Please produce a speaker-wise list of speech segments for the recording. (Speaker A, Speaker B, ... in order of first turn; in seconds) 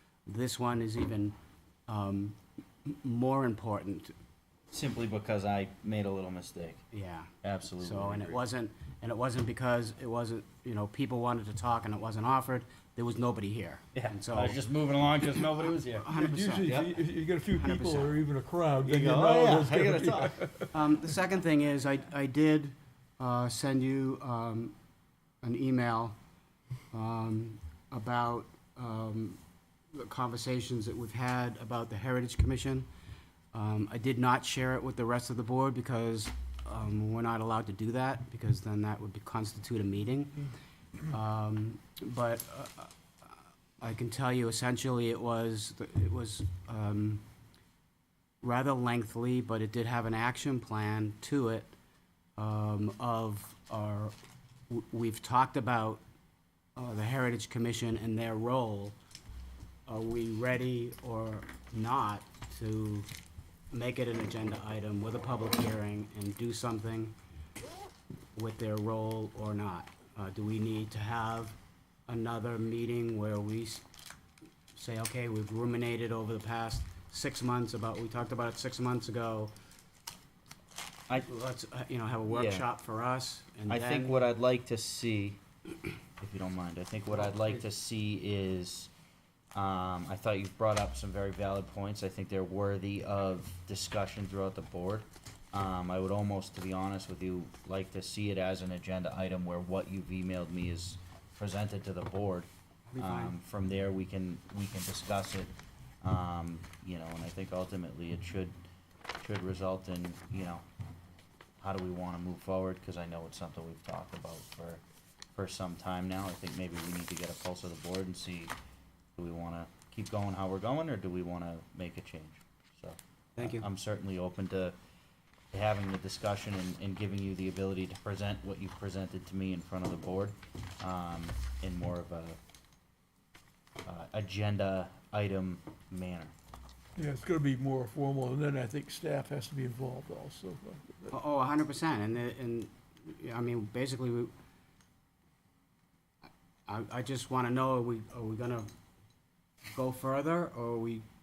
Speaker A: 0.2-1.3, 1.9-4.1, 6.9-14.6, 16.0-16.7, 17.5-18.2, 20.7-24.7, 25.4-26.1, 26.9-29.4, 29.9-32.9, 33.5-40.4, 41.1-47.2, 48.4-51.7, 52.4-54.1, 54.7-56.0, 56.8-58.9, 59.9-63.1, 63.7-67.1, 68.3-73.8, 74.7-79.5, 81.1-84.2, 102.9-103.3, 123.4-123.7, 141.1-144.3, 146.7-148.7, 149.7-151.0
Speaker B: 4.7-6.8, 7.4-8.4, 13.9-16.1, 16.6-16.9, 18.8-20.4, 82.3-82.7, 83.7-85.4, 86.2-88.9, 89.5-105.5, 106.0-108.5, 109.2-110.6, 111.6-114.8, 115.3-118.5, 119.2-124.7, 125.5-132.4, 133.8-136.3
Speaker C: 16.2-20.7, 136.9-141.1